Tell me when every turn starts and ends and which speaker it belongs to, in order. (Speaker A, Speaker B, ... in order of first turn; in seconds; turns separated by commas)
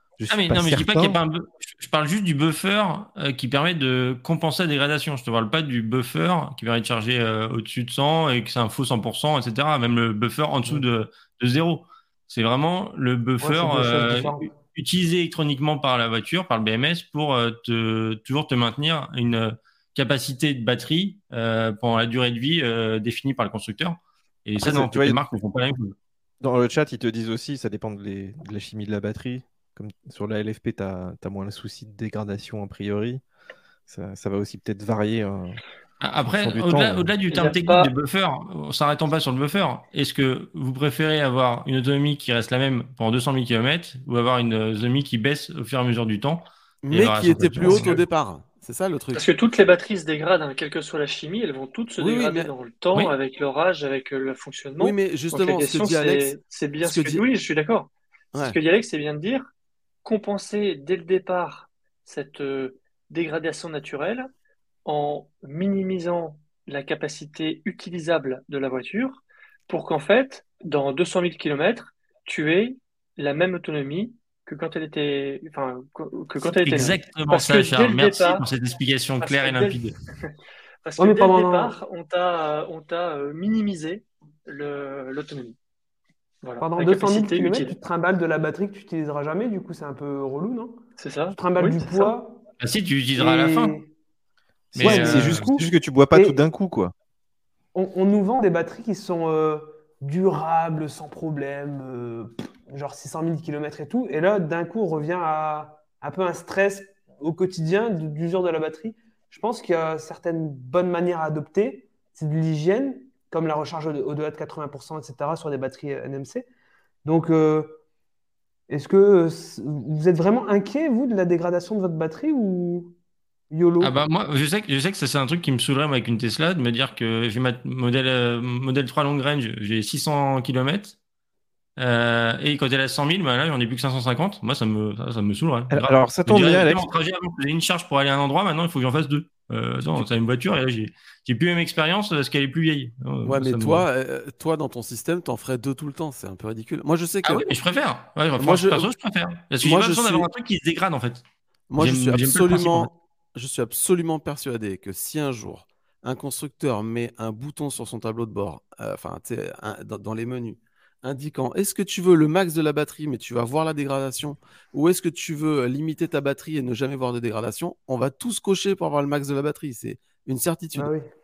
Speaker A: 0.2-1.2, Speaker B: 0.3-25.9, Speaker C: 13.4-14.5, Speaker A: 24.6-25.2, Speaker A: 26.4-33.2, Speaker A: 33.9-35.6, Speaker B: 36.0-48.0, Speaker A: 36.2-37.1, Speaker D: 37.3-37.9, Speaker E: 46.8-49.2, Speaker D: 49.1-59.5, Speaker E: 52.0-52.5, Speaker E: 54.8-57.2, Speaker D: 60.0-64.3, Speaker D: 64.8-78.5, Speaker B: 76.4-80.0, Speaker D: 79.2-80.3, Speaker D: 80.8-85.6, Speaker C: 81.0-81.8, Speaker D: 86.4-87.8, Speaker C: 86.6-92.4, Speaker D: 91.0-92.2, Speaker B: 92.6-93.8, Speaker C: 93.1-93.9, Speaker A: 94.7-96.9, Speaker B: 94.7-95.5, Speaker C: 94.8-96.4, Speaker C: 97.7-116.5, Speaker C: 117.0-117.8, Speaker C: 118.7-123.0, Speaker C: 123.5-124.0, Speaker B: 123.8-131.0, Speaker B: 131.8-143.8, Speaker A: 135.7-136.9, Speaker E: 143.2-147.6, Speaker B: 147.2-151.2, Speaker E: 148.4-148.9, Speaker E: 149.6-150.3, Speaker E: 151.7-170.9, Speaker B: 151.8-152.9, Speaker C: 170.7-171.0